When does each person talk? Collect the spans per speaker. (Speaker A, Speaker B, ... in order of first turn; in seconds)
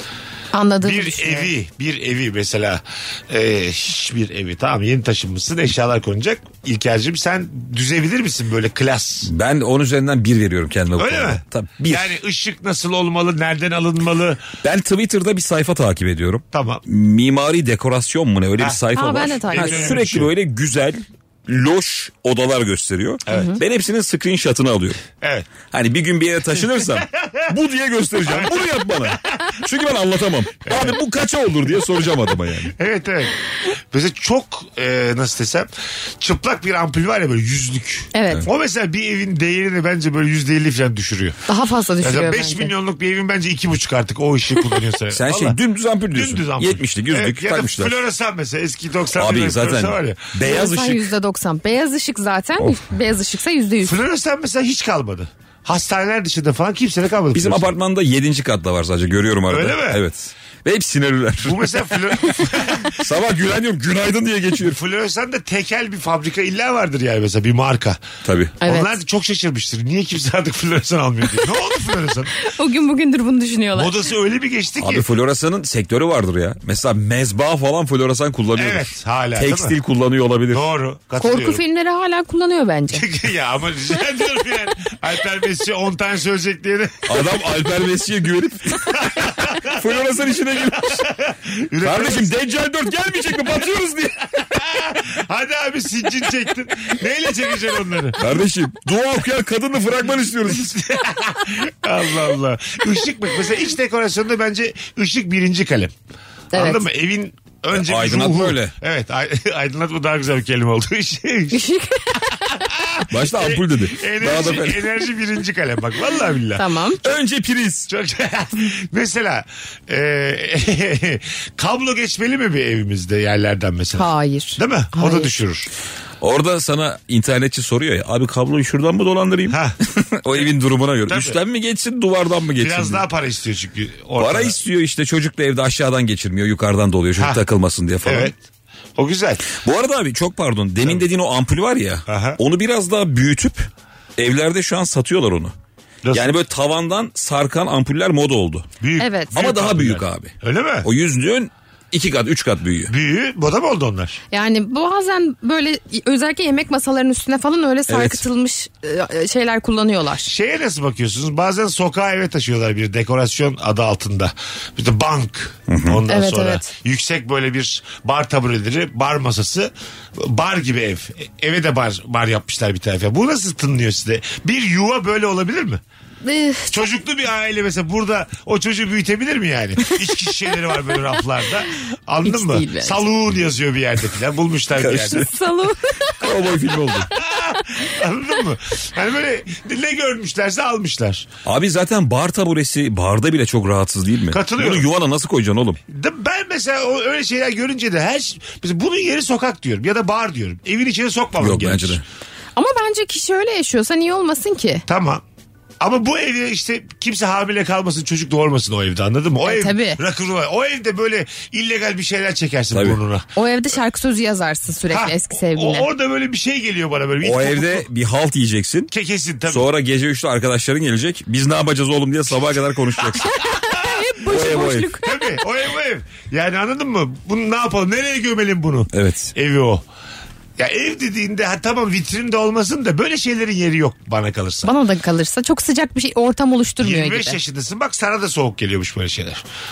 Speaker A: 0.5-1.5, 18.9-19.9, 23.3-23.6, 38.1-38.4, 41.5-42.7, 50.4-54.0, 68.6-68.9, 72.4-74.0, 81.2-83.0, 106.5-106.8, 111.5-112.5, 116.5-117.0, 124.0-125.3, 149.0-149.3, 154.3-160.3, 166.1-166.7, 176.2-176.7, 182.2-183.0, 185.1-186.2, 202.6-204.8, 209.4-210.0, 213.3-215.9, 223.2-225.2, 234.6-237.4
Speaker B: 0.8-9.3, 10.9-14.4, 16.5-16.8, 19.5-20.3, 23.3-23.6, 25.2-25.5, 27.0-27.4, 28.3-29.2, 30.6-31.0, 32.6-41.4, 42.0-45.6, 46.1-50.3, 53.8-57.7, 59.5-60.0, 61.4-63.0, 64.6-68.0, 68.6-72.3, 73.7-75.1, 78.6-79.8, 80.5-81.6, 82.9-87.2, 88.9-89.8, 90.8-92.3, 94.4-98.2, 100.4-105.9, 106.5-111.6, 112.1-116.7, 117.9-125.7, 129.5-129.8, 131.1-131.4, 132.6-134.6, 138.0-138.4, 139.0-139.5, 142.1-142.4, 148.8-150.9, 152.9-154.2, 160.2-175.8, 176.7-185.3, 187.1-191.3, 194.3-194.9, 195.9-202.0, 204.9-205.2, 205.8-213.3, 214.9-217.8, 218.9-219.7, 223.1-223.7, 225.0-229.8, 230.6-234.7, 236.8-239.4
Speaker C: 9.2-12.1, 14.6-25.0, 25.7-32.7, 45.1-47.9, 49.1-51.0, 57.3-64.8, 68.2-68.6, 74.8-80.6, 87.0-91.1, 91.8-94.2, 98.2-100.7, 107.7-108.7, 113.1-114.9, 117.0-117.9, 126.2-133.0, 134.2-138.3, 139.5-145.5, 146.1-148.7, 149.3-152.9, 157.9-158.2, 165.7-166.0, 184.8-185.3, 186.2-187.1, 191.4-195.8, 201.4-202.0, 212.7-213.0, 217.2-218.9, 219.5-223.3, 224.2-224.9, 228.9-229.3